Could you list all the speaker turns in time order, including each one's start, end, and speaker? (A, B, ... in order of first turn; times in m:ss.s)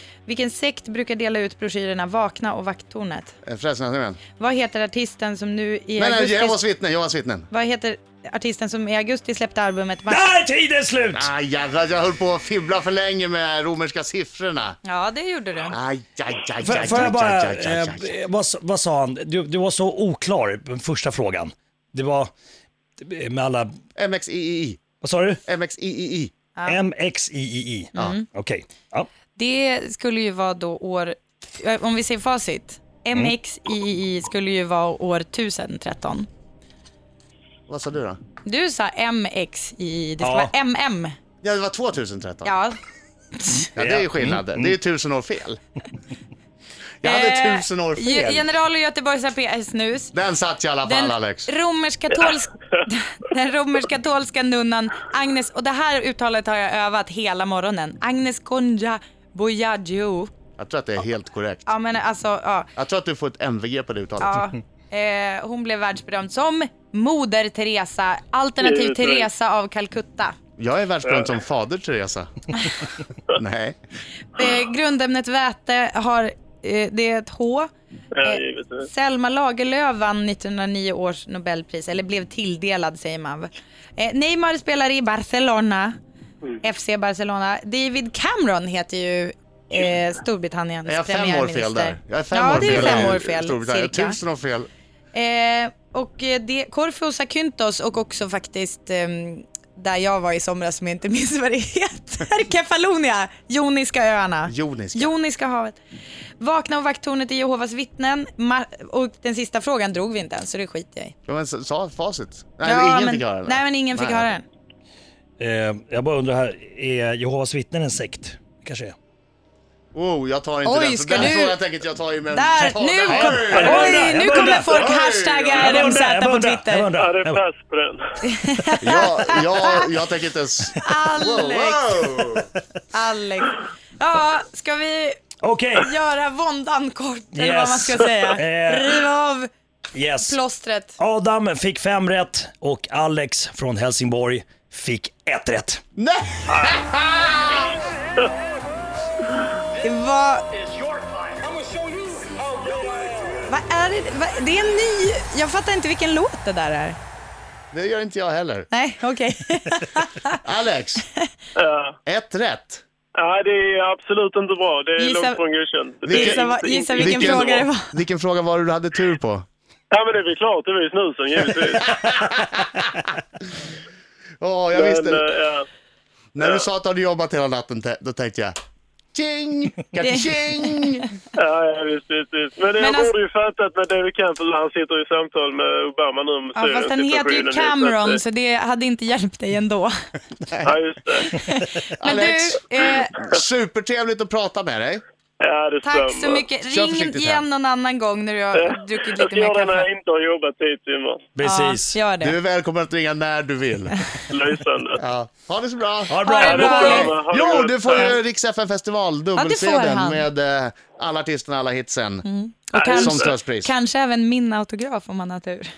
0:00.3-0:03.4 A
0:03.4-0:04.2 B
0:04.4-0:06.6 A
0:06.0-0:07.5 B
0:07.5-0:10.3 A
0:10.1-0:11.3 C
0:11.1-0:14.8 B
0:14.8-0:15.8 A
0:15.7-0:18.1 B
0:16.6-0:22.3 C
0:23.0-0:23.7 C
0:24.0-0:24.8 B
0:25.0-0:25.4 C
0:25.5-0:26.3 B
0:26.6-0:26.8 A
0:26.7-0:29.1 C
0:28.0-0:28.2 A
0:29.4-0:36.3 A
0:37.7-0:38.2 B
0:38.4-0:41.2 A
0:40.2-0:40.5 C
0:41.4-0:42.6 B
0:42.4-0:42.8 A
0:43.4-0:43.7 A
0:43.8-0:45.6 B
0:43.8-0:44.7 C
0:47.0-0:48.5 B
0:47.0-0:50.1 A
0:50.1-0:51.5 B
0:50.8-1:00.3 A
1:00.6-1:01.7 B
1:01.7-1:02.7 A
1:02.8-1:04.4 B
1:04.2-1:10.4 A
1:08.6-1:09.3 D
1:10.6-1:12.3 B
1:13.3-1:13.8 B
1:14.4-1:17.7 A
1:18.2-1:18.9 D
1:18.2-1:26.0 A
1:26.6-1:34.2 A
1:30.9-1:34.7 B
1:32.6-1:33.1 C
1:35.1-1:45.8 A
1:44.5-1:45.1 B
1:46.4-1:51.1 A
1:51.3-1:54.3 B
1:52.6-1:54.4 A
1:55.4-1:59.0 C
1:59.9-2:03.9 B
2:00.6-2:01.6 A
2:02.3-2:06.9 A
2:03.1-2:04.8 C
2:03.5-2:04.0 D
2:04.7-2:05.6 B
2:05.6-2:07.4 C
2:07.0-2:08.0 D
2:08.2-2:09.9 A
2:08.8-2:12.5 B
2:10.8-2:12.0 A
2:12.9-2:15.2 A
2:15.4-2:15.9 C
2:15.8-2:19.5 A
2:17.3-2:19.0 C
2:19.9-2:20.4 C
2:20.2-2:21.0 A
2:21.0-2:25.8 C
2:26.0-2:27.7 B
2:26.5-2:26.8 D
2:29.8-2:30.4 A
2:33.5-2:37.0 A
2:37.7-2:38.7 B
2:38.7-2:40.4 A
2:40.4-2:41.0 B
2:41.6-2:42.0 D
2:42.1-2:42.8 B
2:43.2-2:47.7 D
2:45.0-2:45.4 A
2:46.1-2:49.5 B
2:46.1-2:47.9 A
2:49.9-2:52.0 D
2:51.8-2:52.9 B
2:54.4-2:55.3 B
2:54.7-2:55.7 D
2:56.4-2:58.5 B
2:56.4-2:56.7 D
2:59.1-3:01.1 B
3:00.0-3:01.1 A
3:01.4-3:08.2 D
3:02.8-3:03.1 A
3:06.6-3:09.9 A
3:10.4-3:10.7 B
3:10.6-3:11.4 D
3:11.3-3:13.2 A
3:12.0-3:15.0 B
3:15.4-3:16.5 D
3:15.8-3:19.9 A
3:16.7-3:17.4 B
3:18.6-3:21.3 D
3:21.4-3:22.0 C
3:21.4-3:22.4 A
3:22.2-3:24.0 B
3:24.3-3:25.0 D
3:25.0-3:26.2 B
3:26.1-3:27.1 C
3:26.2-3:27.1 A
3:26.4-3:28.2 D
3:26.7-3:32.2 B
3:29.4-3:30.3 A
3:32.2-3:35.7 A
3:32.8-3:33.3 D
3:32.9-3:33.7 B